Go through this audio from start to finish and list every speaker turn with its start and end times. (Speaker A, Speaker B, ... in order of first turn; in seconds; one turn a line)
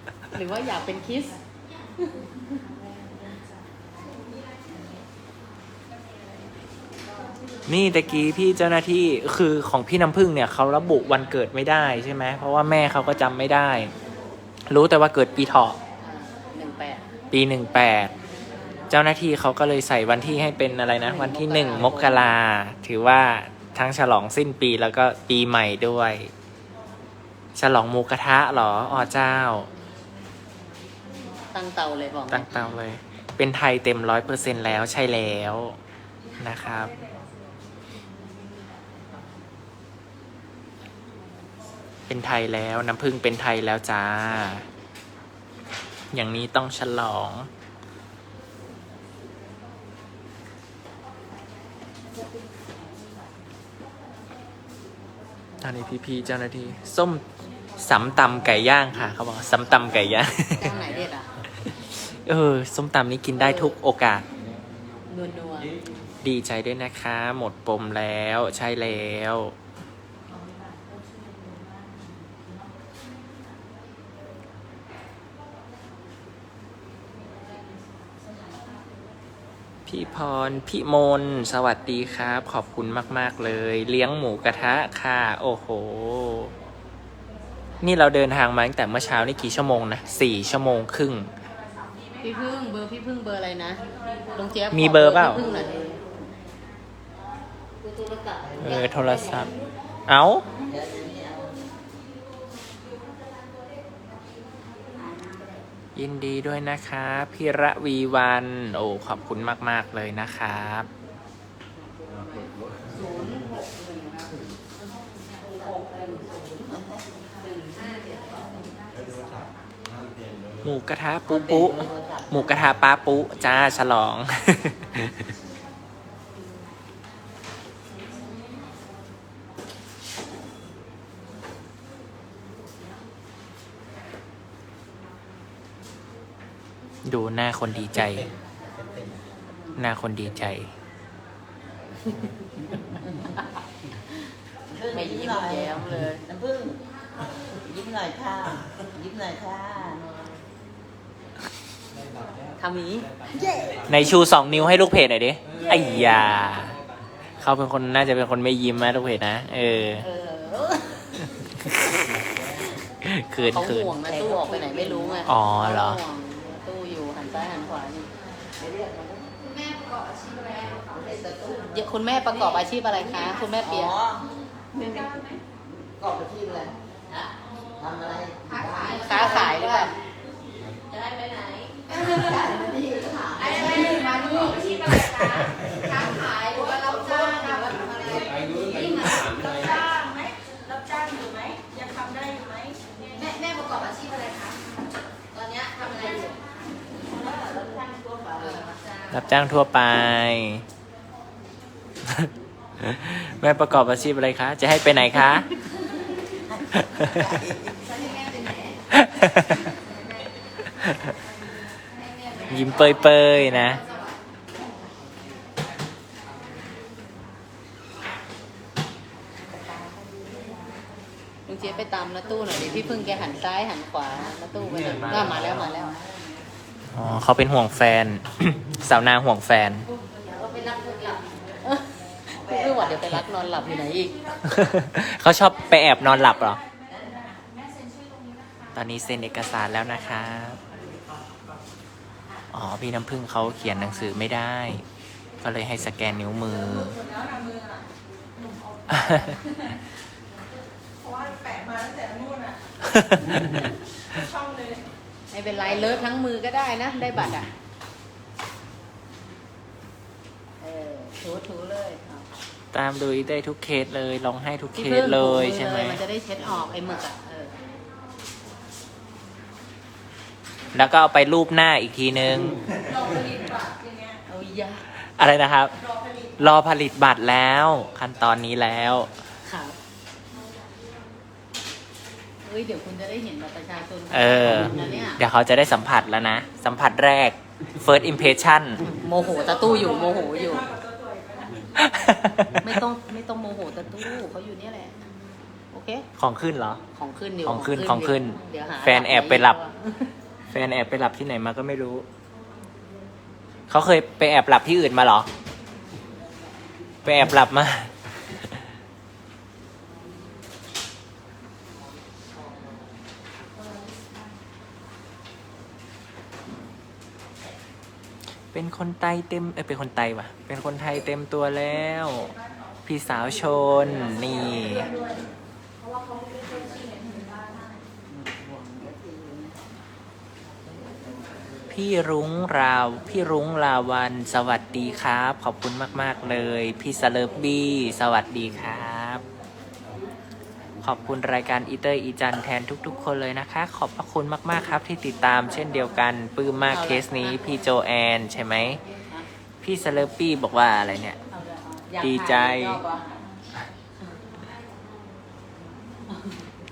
Speaker A: 0.3-1.3
Speaker B: 7.7-13.9
Speaker B: 14.7-15.8
Speaker A: 16.0-17.0
Speaker B: 17.3-18.1
Speaker B: 18.9-26.3
Speaker A: 21.0-22.2
Speaker B: 27.6-29.7
Speaker A: 31.5-32.7
Speaker B: 32.3-35.8
Speaker B: 36.4-37.0
Speaker B: 42.1-44.6
Speaker B: 46.1-47.5
Speaker B: 55.6-57.2
Speaker B: 57.8-60.8
Speaker A: 60.6-61.3
Speaker B: 62.2-64.2
Speaker A: 63.4-63.8
Speaker A: 65.1-65.7
Speaker B: 66.2-69.5
Speaker B: 79.9-86.5
Speaker B: 87.8-91.3
Speaker A: 92.2-93.8
Speaker A: 94.3-95.8
Speaker B: 94.7-95.4
Speaker C: 95.4-96.0
Speaker B: 98.6-99.5
Speaker B: 100.1-100.5
Speaker C: 100.6-101.6
Speaker B: 105.9-110.9
Speaker A: 112.1-112.4
Speaker A: 113.0-114.3
Speaker A: 115.5-116.7
Speaker C: 116.7-117.0
Speaker D: 117.8-118.4
Speaker B: 120.6-125.1
Speaker C: 121.2-122.8
Speaker B: 137.0-138.3
Speaker B: 139.8-140.7
Speaker C: 144.7-146.8
Speaker A: 144.9-146.2
Speaker C: 147.6-150.3
Speaker A: 152.6-153.1
Speaker B: 153.9-156.8
Speaker B: 157.4-160.0
Speaker A: 160.0-160.6
Speaker C: 160.3-160.7
Speaker B: 163.0-163.9
Speaker A: 163.5-168.1
Speaker C: 164.0-165.3
Speaker B: 165.2-166.0
Speaker C: 168.6-169.3
Speaker D: 169.4-171.2
Speaker C: 170.9-171.8
Speaker A: 171.7-173.9
Speaker C: 173.6-174.2
Speaker D: 174.8-175.1
Speaker E: 174.8-175.3
Speaker C: 175.8-176.7
Speaker C: 177.8-179.5
Speaker D: 178.5-179.9
Speaker A: 178.9-179.9
Speaker D: 180.9-182.4
Speaker C: 181.9-184.6
Speaker D: 183.3-189.6
Speaker C: 187.4-189.2
Speaker E: 189.5-192.8
Speaker D: 193.1-194.6
Speaker D: 195.3-196.3
Speaker C: 197.1-198.8
Speaker D: 198.4-199.2
Speaker B: 199.1-200.6
Speaker B: 202.8-205.4
Speaker B: 206.8-207.3
Speaker C: 207.0-207.5
Speaker D: 207.8-208.8
Speaker B: 208.9-209.7
Speaker B: 210.8-211.1
Speaker D: 211.9-214.2
Speaker B: 212.5-213.8
Speaker A: 221.5-225.9
Speaker B: 226.9-229.9
Speaker A: 230.3-234.2
Speaker C: 232.4-233.2
Speaker B: 234.4-236.6
Speaker B: 238.7-240.6
Speaker B: 242.5-244.8
Speaker B: 245.4-247.0
Speaker E: 246.6-247.8
Speaker B: 248.9-249.3
Speaker E: 251.0-252.6
Speaker B: 252.9-253.4
Speaker E: 254.2-254.8
Speaker A: 255.3-257.5
Speaker A: 260.6-262.3
Speaker B: 262.7-266.0
Speaker A: 264.7-267.5
Speaker B: 270.7-272.6
Speaker E: 272.9-274.2
Speaker A: 274.3-274.8
Speaker B: 275.2-275.7
Speaker B: 276.4-279.1
Speaker A: 279.4-279.8
Speaker A: 282.4-285.2
Speaker B: 284.1-288.8
Speaker A: 288.8-290.7
Speaker E: 289.2-291.6
Speaker B: 291.8-292.8
Speaker A: 292.6-294.9
Speaker A: 295.7-296.1
Speaker B: 296.2-296.8
Speaker A: 296.9-300.1
Speaker B: 297.4-299.6
Speaker B: 300.5-302.1
Speaker B: 303.7-305.3
Speaker B: 307.1-307.9
Speaker B: 318.5-322.3
Speaker B: 322.9-324.9
Speaker E: 324.7-325.0
Speaker E: 326.2-327.6
Speaker C: 328.1-329.6
Speaker B: 331.7-339.2
Speaker B: 340.8-348.8
Speaker A: 346.7-347.5
Speaker B: 349.6-351.2
Speaker A: 351.3-353.1
Speaker B: 352.0-352.8